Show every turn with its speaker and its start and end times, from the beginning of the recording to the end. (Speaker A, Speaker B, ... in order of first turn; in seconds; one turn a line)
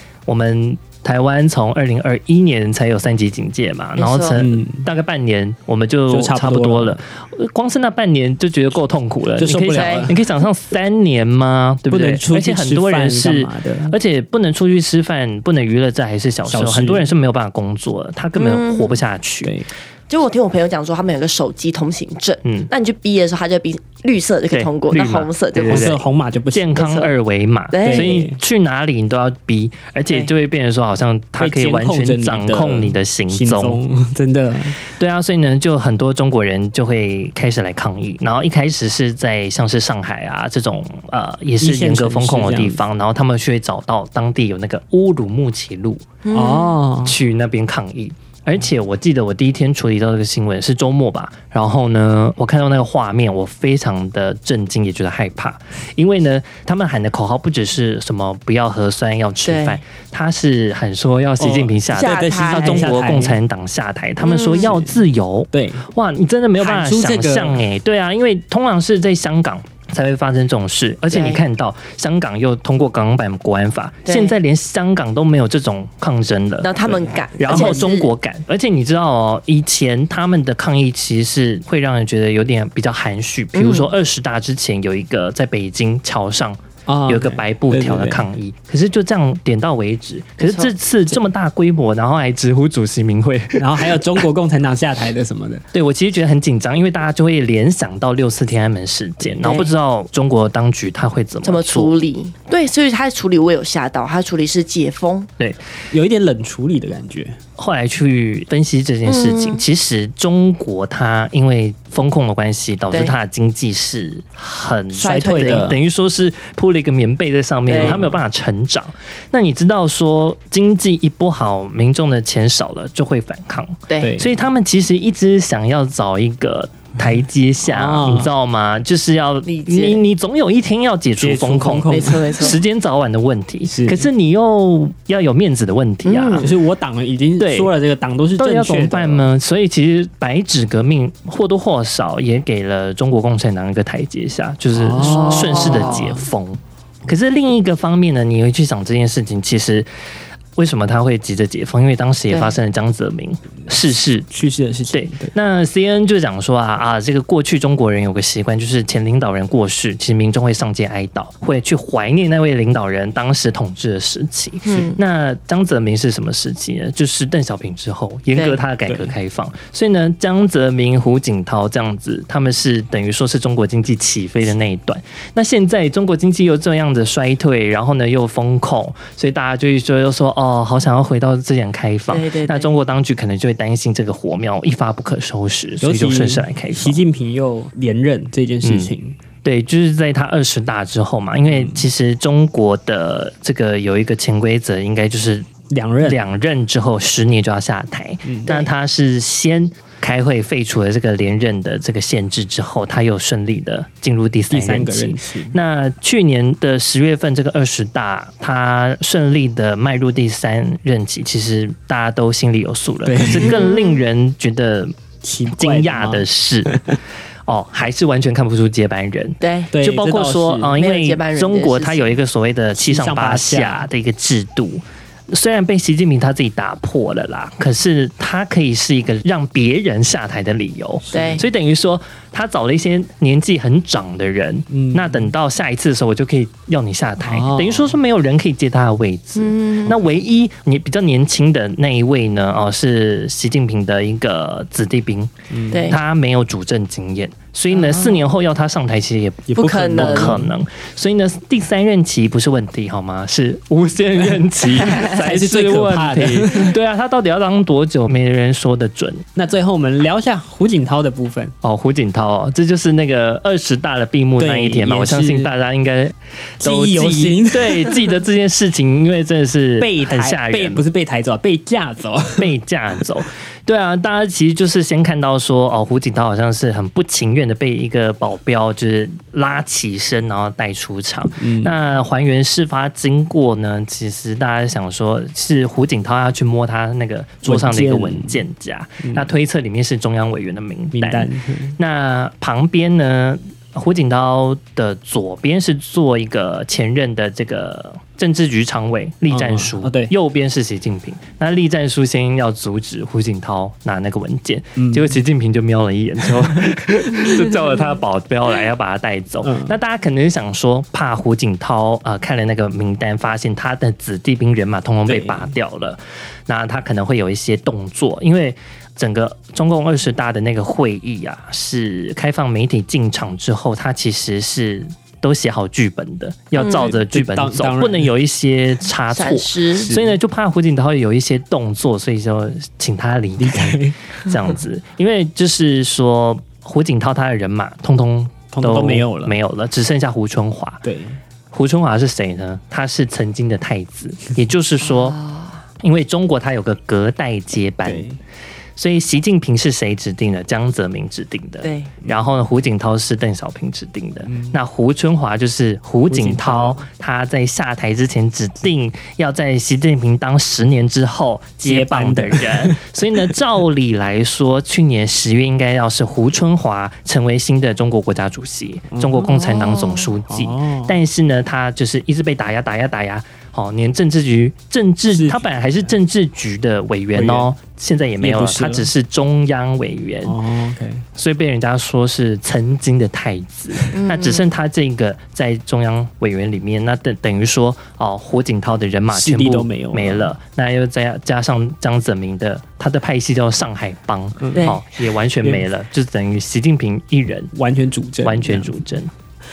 Speaker A: 0.3-19.5
Speaker B: 4.0-4.4
Speaker C: 4.3-4.9
Speaker C: 6.1-7.0
Speaker C: 9.4-10.2
Speaker B: 9.7-10.1
Speaker C: 11.9-14.0
Speaker C: 16.4-17.1
Speaker B: 18.4-19.0
Speaker B: 20.1-25.9
Speaker A: 22.4-22.7
Speaker A: 24.5-26.0
Speaker C: 25.7-26.9
Speaker A: 26.5-33.8
Speaker B: 26.8-27.1
Speaker B: 27.7-28.2
Speaker C: 27.8-28.4
Speaker C: 31.4-34.8
Speaker A: 35.0-46.0
Speaker C: 41.6-42.8
Speaker B: 46.2-46.8
Speaker C: 46.3-47.1
Speaker A: 47.0-76.8
Speaker B: 59.4-59.8
Speaker C: 61.4-63.4
Speaker B: 61.9-62.9
Speaker B: 64.2-64.7
Speaker C: 64.5-65.9
Speaker C: 66.6-67.6
Speaker B: 71.1-71.4
Speaker B: 74.0-74.3
Speaker B: 76.6-78.1
Speaker A: 77.4-94.2
Speaker C: 77.4-77.9
Speaker B: 83.5-83.9
Speaker C: 86.9-88.3
Speaker B: 90.4-90.7
Speaker C: 93.6-95.6
Speaker A: 95.7-101.9
Speaker B: 99.4-99.7
Speaker B: 101.4-105.3
Speaker C: 105.9-107.4
Speaker A: 107.6-136.5
Speaker B: 109.0-109.6
Speaker B: 114.9-115.7
Speaker C: 115.0-115.8
Speaker B: 117.7-118.0
Speaker C: 117.8-118.2
Speaker C: 124.0-124.3
Speaker C: 127.7-128.3
Speaker B: 129.4-130.0
Speaker C: 131.2-132.5
Speaker B: 131.9-132.6
Speaker C: 133.7-134.1
Speaker B: 136.0-136.5
Speaker C: 136.4-139.3
Speaker A: 137.4-137.7
Speaker A: 138.4-149.9
Speaker C: 144.7-146.3
Speaker B: 145.0-146.1
Speaker A: 150.6-154.3
Speaker B: 152.3-152.6
Speaker C: 154.3-155.3
Speaker A: 154.9-187.0
Speaker B: 164.6-165.0
Speaker B: 168.3-168.6
Speaker C: 168.9-169.1
Speaker B: 182.1-182.7
Speaker C: 185.8-189.2
Speaker A: 188.6-188.9
Speaker A: 189.4-195.5
Speaker C: 191.5-191.8
Speaker C: 195.7-196.2
Speaker A: 196.0-214.9
Speaker C: 198.2-198.5
Speaker C: 204.5-205.6
Speaker C: 213.0-213.5
Speaker B: 213.4-214.0
Speaker C: 215.2-216.2
Speaker A: 215.5-245.3
Speaker B: 219.4-219.7
Speaker C: 219.7-220.8
Speaker B: 220.8-222.1
Speaker C: 222.8-223.9
Speaker C: 231.0-231.4
Speaker B: 231.1-231.4
Speaker C: 234.7-235.3
Speaker C: 237.2-238.0
Speaker B: 239.3-239.9
Speaker C: 245.5-245.9
Speaker B: 245.7-246.0
Speaker A: 245.9-259.2
Speaker B: 247.7-248.2
Speaker C: 249.5-250.5
Speaker B: 249.5-250.4
Speaker C: 254.8-256.8
Speaker C: 259.3-261.5
Speaker A: 261.6-270.8
Speaker C: 264.4-265.5
Speaker C: 266.6-268.1
Speaker C: 269.8-272.5
Speaker A: 272.4-340.8
Speaker C: 281.4-281.7
Speaker C: 287.4-288.4
Speaker C: 289.0-289.3
Speaker C: 290.9-291.8
Speaker C: 299.3-300.1
Speaker C: 304.8-305.2
Speaker C: 309.4-309.8
Speaker C: 315.1-315.5
Speaker C: 326.6-328.1
Speaker B: 326.6-326.9
Speaker B: 329.1-329.9
Speaker C: 329.8-330.2
Speaker C: 333.4-334.0
Speaker C: 338.5-339.4
Speaker C: 340.8-341.2
Speaker A: 341.5-345.2
Speaker B: 344.8-345.6
Speaker A: 345.8-348.1
Speaker C: 347.8-348.2
Speaker A: 348.8-380.4
Speaker B: 351.6-351.9
Speaker C: 354.3-354.6
Speaker C: 356.1-356.8
Speaker C: 361.6-363.3
Speaker C: 368.9-369.4
Speaker B: 369.4-370.1
Speaker C: 370.3-370.9
Speaker C: 375.1-375.9
Speaker C: 377.1-377.5
Speaker C: 378.2-378.9
Speaker C: 380.2-381.0
Speaker A: 381.1-397.5
Speaker B: 383.9-384.4
Speaker C: 389.1-390.3
Speaker C: 394.4-394.7
Speaker B: 394.6-394.8
Speaker C: 397.5-398.8
Speaker A: 398.2-399.1